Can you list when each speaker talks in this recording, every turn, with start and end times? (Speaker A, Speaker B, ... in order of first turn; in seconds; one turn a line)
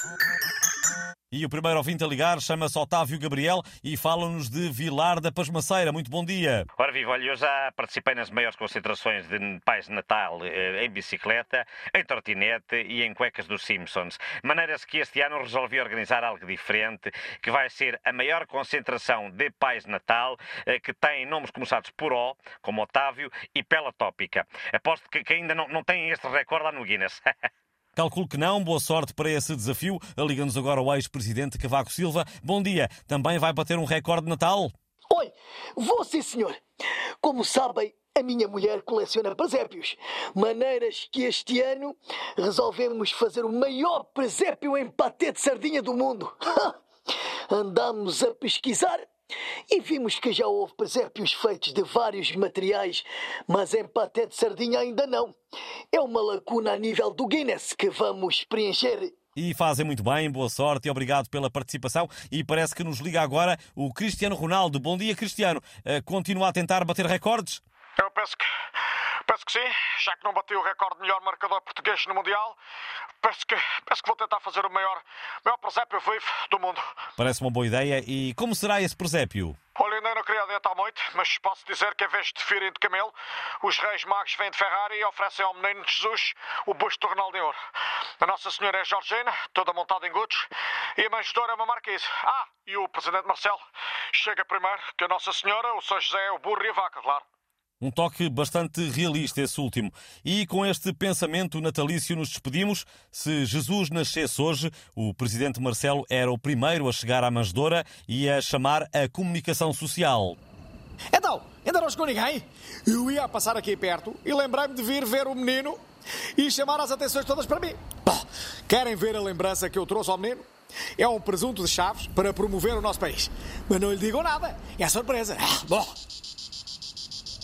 Speaker A: 1.3-6.7
Speaker B: 6.8-27.3
Speaker A: 28.0-34.7
Speaker C: 35.1-36.6
Speaker C: 37.2-46.8
Speaker C: 47.5-49.0
Speaker C: 49.7-55.4
Speaker C: 55.9-59.1
Speaker A: 59.4-67.6
Speaker D: 68.0-68.5
Speaker D: 69.3-72.6
Speaker D: 73.2-76.9
Speaker A: 77.2-79.6
Speaker D: 79.8-87.6
Speaker D: 88.2-97.2
Speaker A: 97.8-110.4
Speaker E: 111.1-115.8
Speaker E: 116.4-126.0